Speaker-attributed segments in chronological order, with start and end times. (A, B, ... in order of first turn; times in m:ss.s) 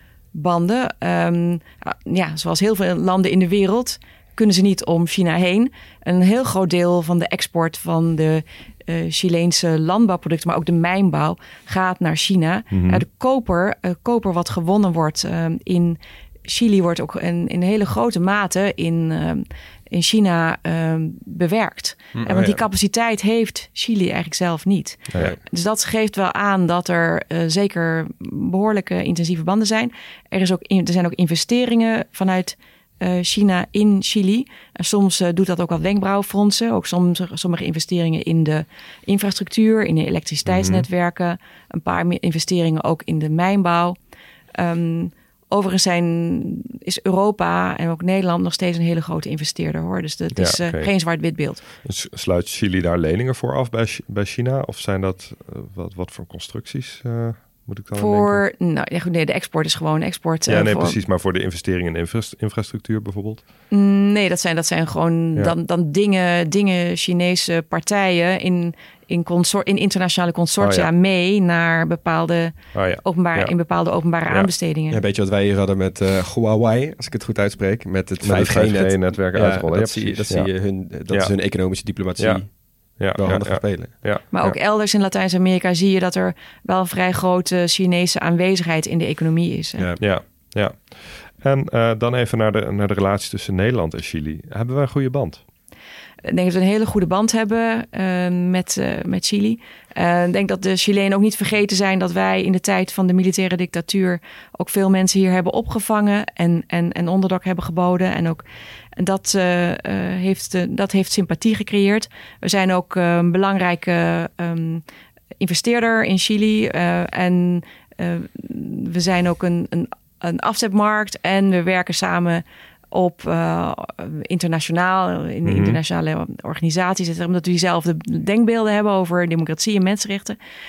0:00.3-0:44.0 A
0:12.7-0:13.0 B
0:22.2-0:22.6 C
0:25.1-0:25.4 B
0:40.4-0:40.9 B
0:44.6-0:51.6 A
0:50.4-0:50.9 B
0:51.8-0:58.4 B
0:57.9-1:01.0 A
1:00.5-1:03.4 B
1:03.7-1:15.0 A
1:10.6-1:10.9 B
1:12.7-1:13.6 B
1:14.9-1:23.9 C
1:18.2-1:21.5 B
1:22.2-1:24.6 B
1:24.3-1:29.9 A
1:29.8-1:30.0 C
1:30.0-1:35.4 B
1:36.2-1:48.4 A
1:49.0-1:54.8 A
1:55.4-2:10.4 A
2:05.4-2:05.8 B